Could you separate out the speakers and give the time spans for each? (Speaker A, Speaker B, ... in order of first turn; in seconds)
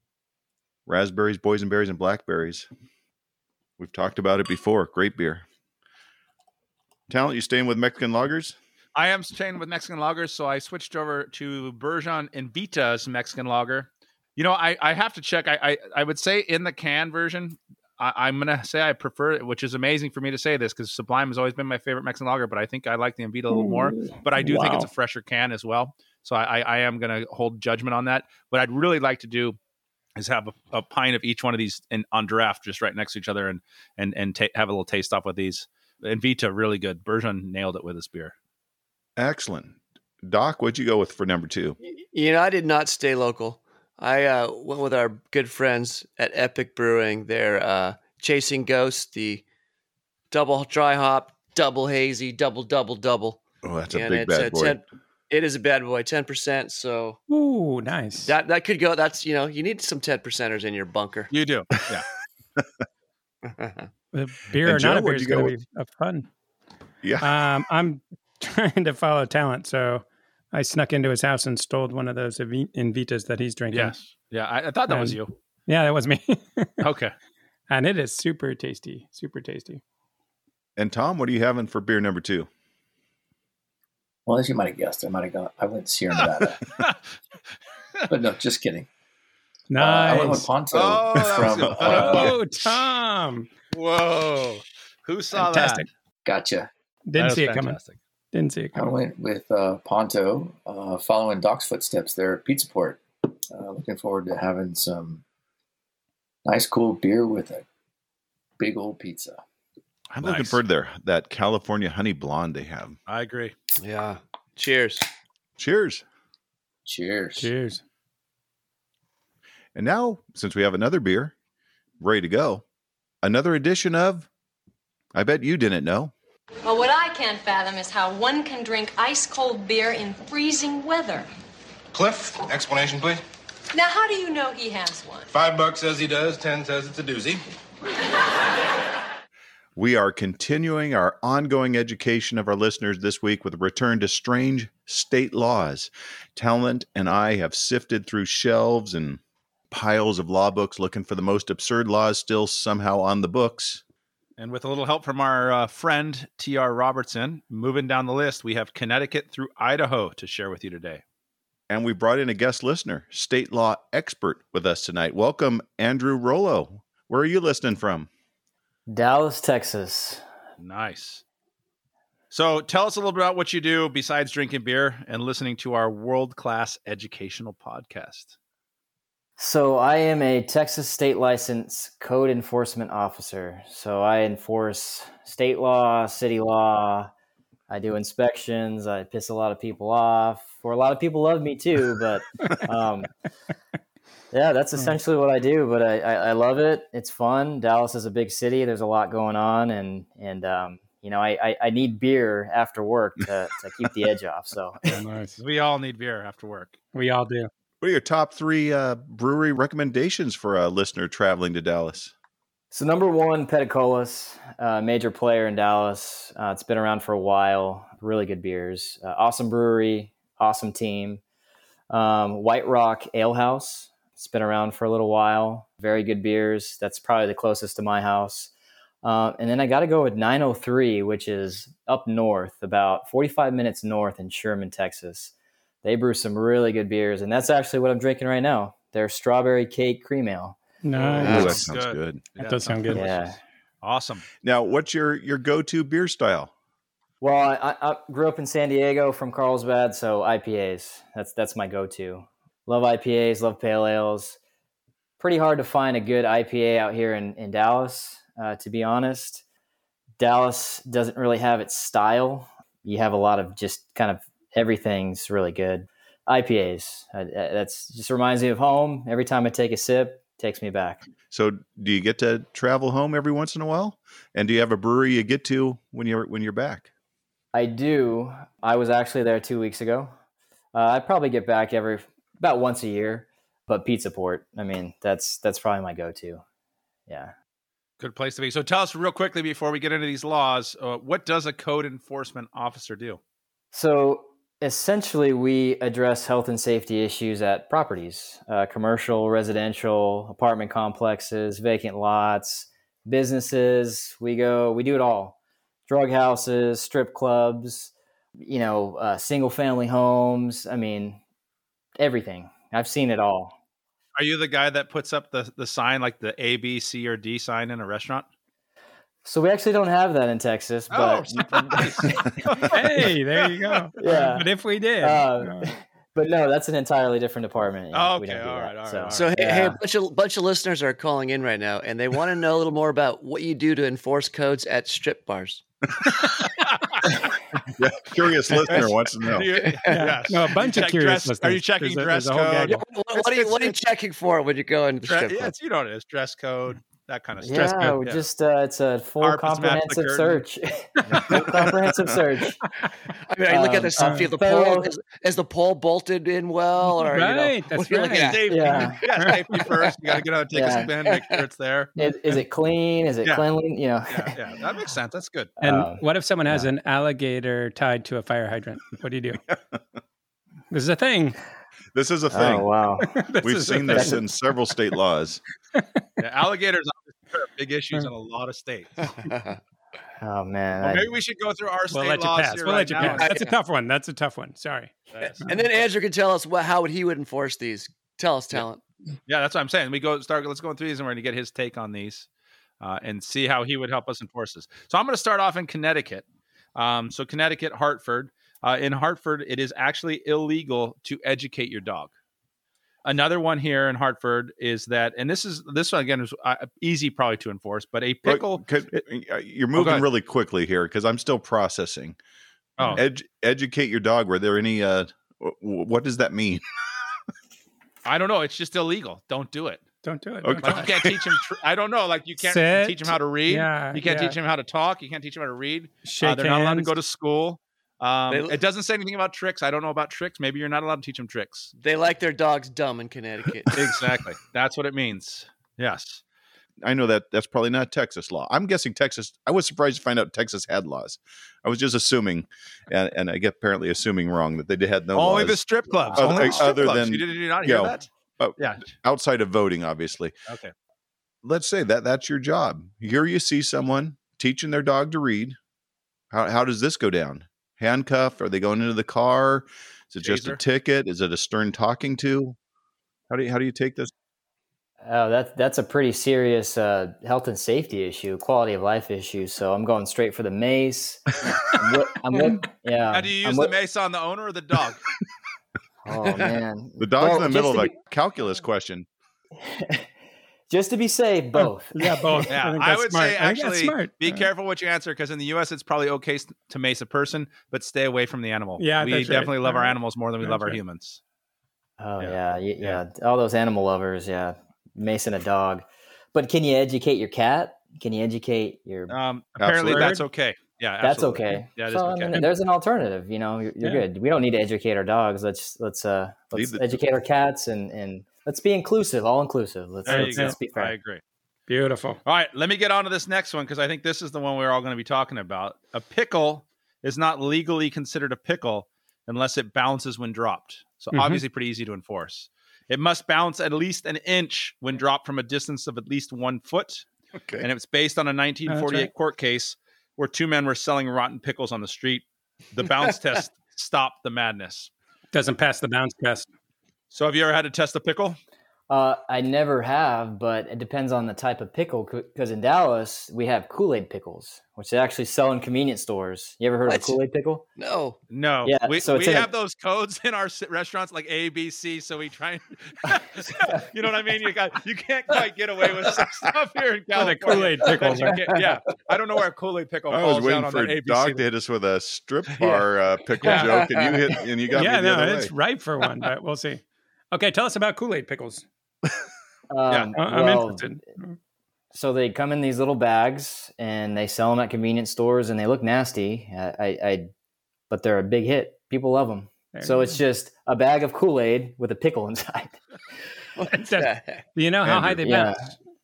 Speaker A: 0.9-2.7, 3.8-5.4, 7.1-8.6, 39.2-41.8, 53.6-54.8, 64.6-65.6, 67.0-67.4, 80.8-82.5, 110.1-113.0, 115.6-116.0, 119.8-121.3, 122.0-122.6, 123.2-124.3, 125.1-126.1, 139.8-149.2, 149.7-153.8, 161.7-168.1, 207.8-212.1, 241.2-242.3, 244.4-246.5, 271.3-276.9, 337.8-339.5, 371.9-372.7, 373.4-375.4, 408.2-412.2, 412.9-416.6, 420.4-421.2, 436.8-445.6, 446.1-450.4, 451.4-455.6, 456.3-462.6, 463.3-464.1, 477.0-479.1, 499.6-500.1, 506.5-507.0, 527.4-527.7, 560.1-565.5, 584.8-585.2
Speaker B: 8.9-29.6, 30.2-38.3, 61.3-62.1, 73.7-75.3, 76.8-77.1, 90.7-92.7, 93.7-95.8, 97.2-98.0, 110.2-110.6, 113.1-113.5, 154.4-161.0, 170.6-171.2, 172.3-178.3, 205.4-206.8, 240.9-244.3, 288.0-293.2, 314.2-318.3, 320.9-323.9, 327.9-329.3, 336.6-337.1, 338.7-343.8, 345.0-348.2, 349.2-350.4, 358.1-361.9, 364.1-365.5, 376.2-379.1, 380.8-383.4, 385.1-385.8, 389.3-392.3, 392.8-402.1, 403.1-409.0, 409.8-410.1, 412.8-413.0, 418.1-419.9, 420.6-431.7, 433.7-436.2, 445.1-448.9, 450.5-450.7, 460.2-460.6, 473.1-475.1, 482.5-491.2, 492.2-493.0, 499.1-502.4, 510.1-511.2, 512.2-527.1, 527.6-534.9, 537.1-538.4, 548.3-561.5
Speaker C: 23.5-24.9, 57.3-58.3, 64.1-66.3, 67.2-74.0, 74.9-76.9, 77.7-79.8, 89.7-90.5, 91.8-93.5, 95.3-95.9, 97.1-97.8, 98.3-98.9, 117.4-117.8, 204.9-205.4, 206.9-207.5, 240.8-241.7, 242.4-243.1, 322.7-325.7, 339.9-342.8, 347.5-348.0, 351.1-351.7, 354.0-354.3, 356.9-359.6, 365.6-369.4, 370.7-371.4, 373.1-374.2, 375.8-376.0, 381.9-385.5, 420.0-420.9, 422.4-424.4, 426.0-426.9, 481.6-484.5, 488.8-490.8, 499.8-500.2, 510.1-510.6, 511.7-512.2, 521.1-521.4, 528.7-529.1, 535.3-536.5, 557.1-558.5, 563.4-563.9, 564.7-568.6, 570.2-571.4, 579.7-580.2, 583.8-585.7
Speaker D: 41.8-49.4, 50.3-53.4, 53.9-57.2, 58.2-61.3, 63.5-63.9, 113.8-115.0, 241.2-241.6, 329.1-335.6, 339.6-340.0, 342.7-345.5, 353.3-358.4, 379.2-379.6, 383.0-383.6, 385.5-388.8, 428.3-428.6, 431.8-433.7, 476.3-476.5, 546.9-547.2, 547.8-548.2, 558.0-558.3, 563.4-564.4, 583.6-584.5
Speaker E: 84.3-86.6, 88.1-88.9, 89.8-92.4, 96.3-96.7, 98.7-105.2, 106.5-107.7, 108.6-109.4, 116.9-117.5
Speaker F: 126.7-131.3, 133.7-135.3
Speaker G: 131.9-133.2, 135.3-137.4
Speaker H: 168.9-170.2, 179.4-187.1, 187.7-193.1, 194.3-205.0, 212.7-221.2, 221.9-228.5, 229.0-235.3, 235.8-240.6, 242.9-243.4, 247.2-254.4, 255.2-259.4, 260.2-271.0, 277.5-280.1, 280.7-286.4, 287.1-287.3, 293.7-305.4, 305.9-311.2, 312.0-313.6, 319.2-322.6, 324.0-329.8, 347.4-352.6, 353.5-354.9, 358.5-359.0, 360.5-360.9, 362.0-364.4, 365.6-366.7, 372.3-373.2, 380.2-381.1, 465.0-473.7, 476.1-477.9, 479.6-480.1, 480.7-482.4, 492.0-499.1, 501.0-510.9, 538.9-547.6, 548.6-549.5, 569.7-571.0, 571.9-577.3, 577.9-582.8, 585.2-585.7